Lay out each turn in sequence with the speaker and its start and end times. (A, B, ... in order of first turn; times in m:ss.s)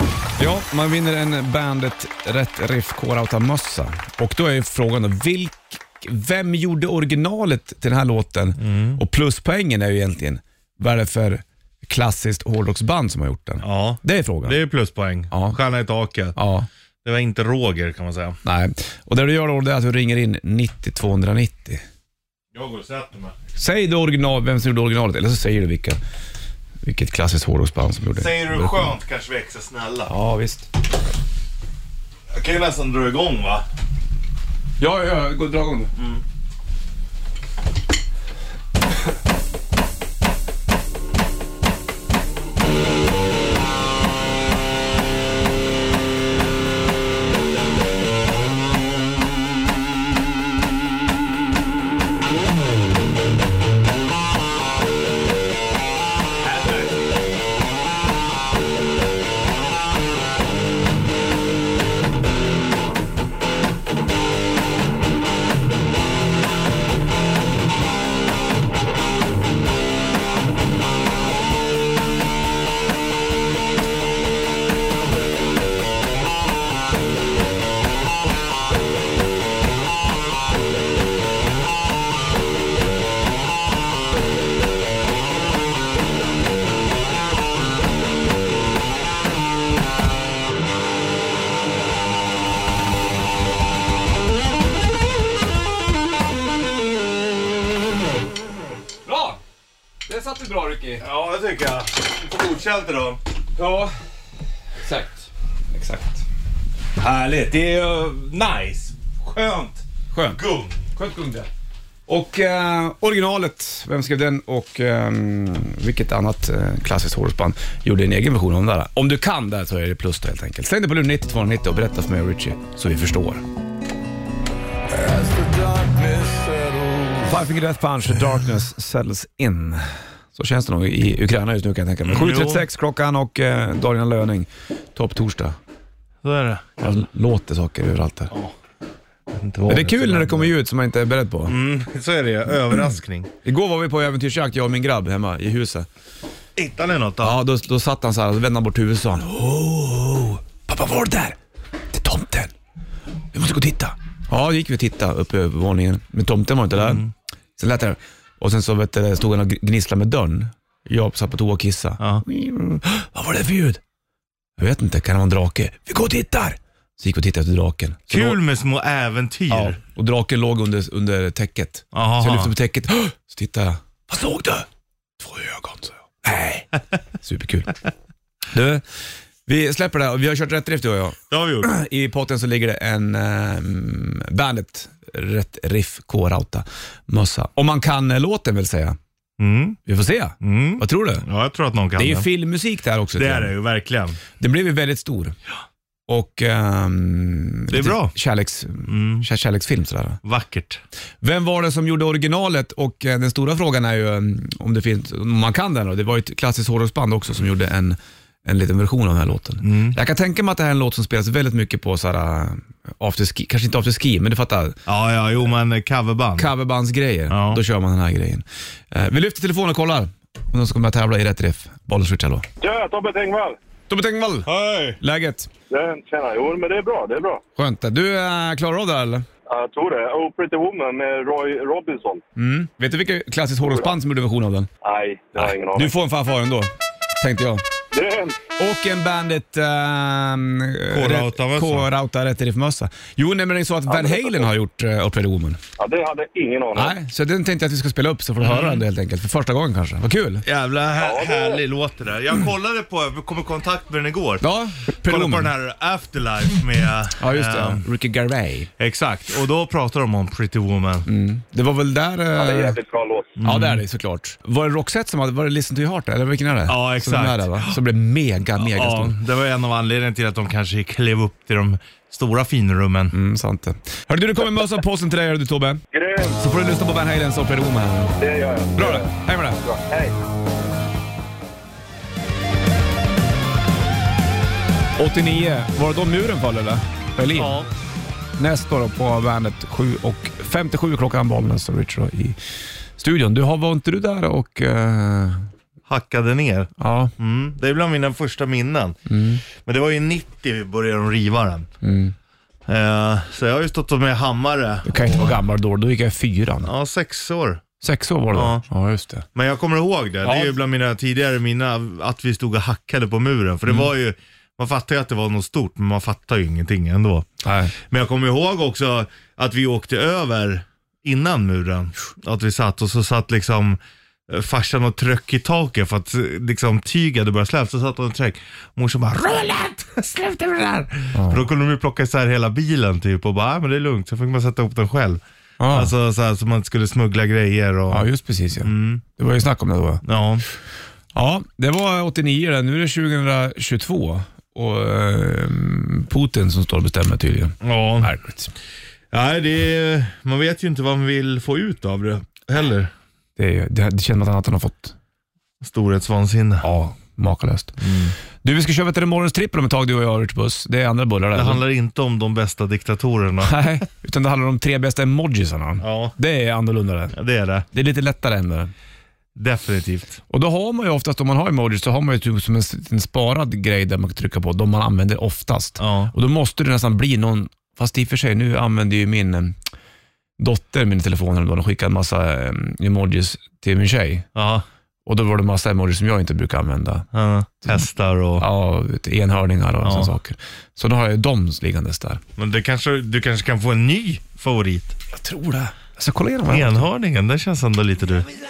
0:00.4-0:14.6 A
0:08.6-0:09.0 B
0:13.6-0:16.4 B
0:15.3-0:15.6 A
0:16.3-0:16.7 A
0:17.0-0:18.4 B
0:18.4-0:21.8 A
0:22.5-0:23.3 B
0:23.6-0:26.0 A
0:26.8-0:28.9 A
0:28.2-0:30.1 B
0:30.1-0:30.7 A
0:32.3-0:33.6 B
0:34.8-0:35.9 A
0:36.0-0:36.2 B
0:56.4-0:56.9 A
1:39.0-1:39.4 A
1:40.0-1:41.0 A
1:41.0-1:43.2 B
1:43.6-1:43.9 A
1:44.8-1:46.2 A
1:47.0-1:50.8 B
1:50.1-1:50.4 A
1:50.9-1:51.5 A
1:52.1-2:03.4 A
2:07.2-2:15.6 A
2:12.0-2:12.6 B
2:16.2-2:17.0 B
2:16.8-2:18.3 A
2:19.3-2:20.5 B
2:19.6-2:21.5 A
2:21.4-2:23.3 B
2:23.4-2:25.9 A
2:26.6-2:27.4 B
2:27.2-2:31.4 A
2:31.9-2:32.5 A
2:33.3-2:37.0 A
2:36.8-2:37.1 B
2:37.6-2:43.8 A
2:44.6-2:48.4 A
2:48.1-2:49.8 B
2:49.5-2:54.7 A
2:51.9-2:52.5 B
2:55.2-2:57.8 A
2:58.5-2:58.8 A
2:59.4-3:09.0 A
3:01.3-3:01.7 B
3:09.4-3:09.8 B
3:09.8-3:11.2 A
3:10.4-3:12.3 B
3:12.0-3:13.5 A
3:13.2-3:14.2 B
3:14.4-3:15.4 A
3:16.1-3:20.2 A
3:17.7-3:18.1 B
3:18.9-3:19.3 B
3:20.2-3:20.8 B
3:21.2-3:34.8 A
3:29.6-3:30.0 B
3:34.8-3:36.5 B
3:36.4-3:42.4 A
3:37.3-3:37.6 B
3:42.6-3:43.6 C
3:43.9-3:44.5 A
3:44.4-3:45.0 B
3:45.0-3:45.5 A
3:45.7-3:47.4 C
3:47.6-3:49.2 A
3:49.5-3:52.2 C
3:52.4-3:54.7 A
3:54.8-3:55.9 C
3:55.4-3:57.6 A
3:57.9-3:58.4 C
3:58.6-4:05.6 A
4:00.9-4:01.9 B
4:03.9-4:04.4 C
4:05.8-4:06.9 C
4:06.7-4:10.4 A
4:08.4-4:08.8 B
4:10.4-4:14.4 B
4:11.0-4:11.6 C
4:14.4-4:15.5 A
4:15.0-4:17.8 B
4:17.2-4:18.7 A
4:18.8-4:21.1 B
4:21.0-4:22.8 A
4:22.4-4:23.3 C
4:23.4-4:23.8 B
4:23.4-4:29.2 A
4:26.7-4:27.8 B
4:28.6-4:33.1 B
4:33.1-4:35.8 A
4:35.9-4:36.4 C
4:36.4-4:38.1 A
4:38.2-4:40.1 C
4:38.8-4:39.6 A
4:45.0-4:47.6 A
4:47.3-4:47.7 B
4:48.4-4:52.4 A
4:53.0-4:55.5 A
4:55.9-4:59.0 B
4:56.8-4:57.1 A
4:59.1-4:59.4 A
4:59.5-5:01.7 B
5:01.8-5:02.1 A
5:02.7-5:05.4 B
5:04.8-5:06.7 A
5:06.6-5:07.6 B
5:07.8-5:09.2 A
5:08.3-5:08.6 B
5:09.3-5:38.1 B
5:10.2-5:10.6 A
5:17.4-5:17.7 A
5:31.1-5:31.4 A
5:35.6-5:35.9 A
5:37.9-5:40.0 A
5:38.6-5:39.0 B
5:40.0-5:40.4 B
5:41.1-5:48.5 A
5:47.6-5:48.1 B
5:49.1-5:52.9 B
5:53.4-5:55.0 A
5:55.6-5:56.6 B
5:56.6-5:57.8 A
5:57.8-5:58.1 B
5:58.4-6:01.6 A
6:01.4-6:03.7 B
6:03.4-6:07.2 A
6:05.8-6:06.1 B
6:07.1-6:07.6 B
6:07.7-6:08.7 A
6:09.4-6:10.2 B
6:10.3-6:19.6 A
6:15.8-6:16.1 B
6:20.4-6:24.3 A
6:24.3-6:24.6 B
6:25.0-6:27.1 A
6:27.1-6:28.4 B
6:28.4-6:32.2 A
6:29.8-6:30.1 B
6:32.4-6:35.0 B
6:35.1-6:36.9 A
6:36.5-6:38.3 B